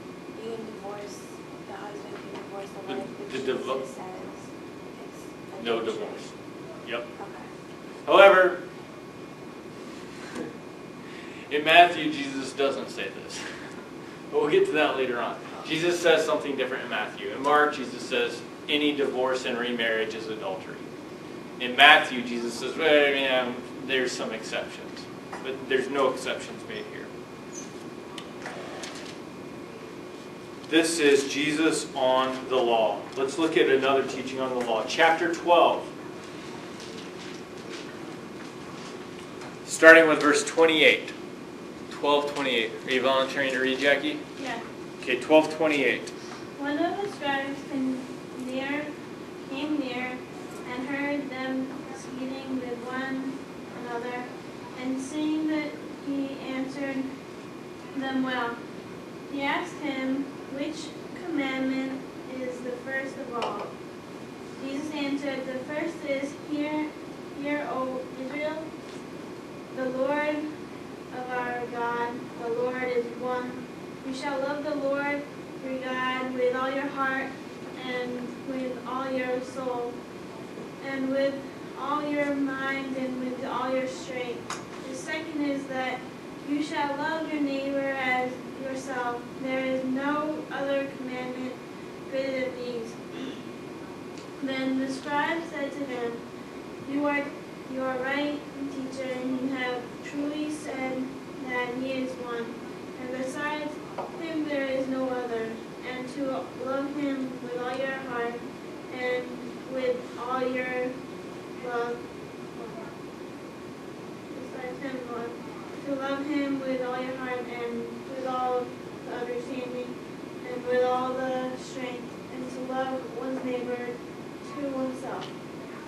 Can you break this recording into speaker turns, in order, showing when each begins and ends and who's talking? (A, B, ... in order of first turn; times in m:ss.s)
0:00.3-0:06.3 A
0:02.8-0:03.8 B
0:05.6-0:06.3 B
0:07.2-0:07.5 A
0:08.0-0:08.6 B
0:11.5-0:13.4 B
0:14.3-0:20.8 B
0:21.6-0:27.1 B
0:30.7-0:35.9 B
0:39.6-0:41.1 B
0:41.9-0:44.2 B
0:44.4-0:44.6 C
0:45.0-0:46.1 B
0:46.6-0:48.9 C
0:49.4-0:57.1 C
0:57.9-0:58.6 C
0:59.3-1:03.7 C
1:04.6-1:08.7 C
1:09.7-1:10.5 C
1:11.1-1:19.9 C
1:20.8-1:33.4 C
1:34.4-1:36.2 C
1:36.8-1:50.9 C
1:51.6-1:52.0 C
1:52.6-1:52.9 C
1:54.3-2:05.3 C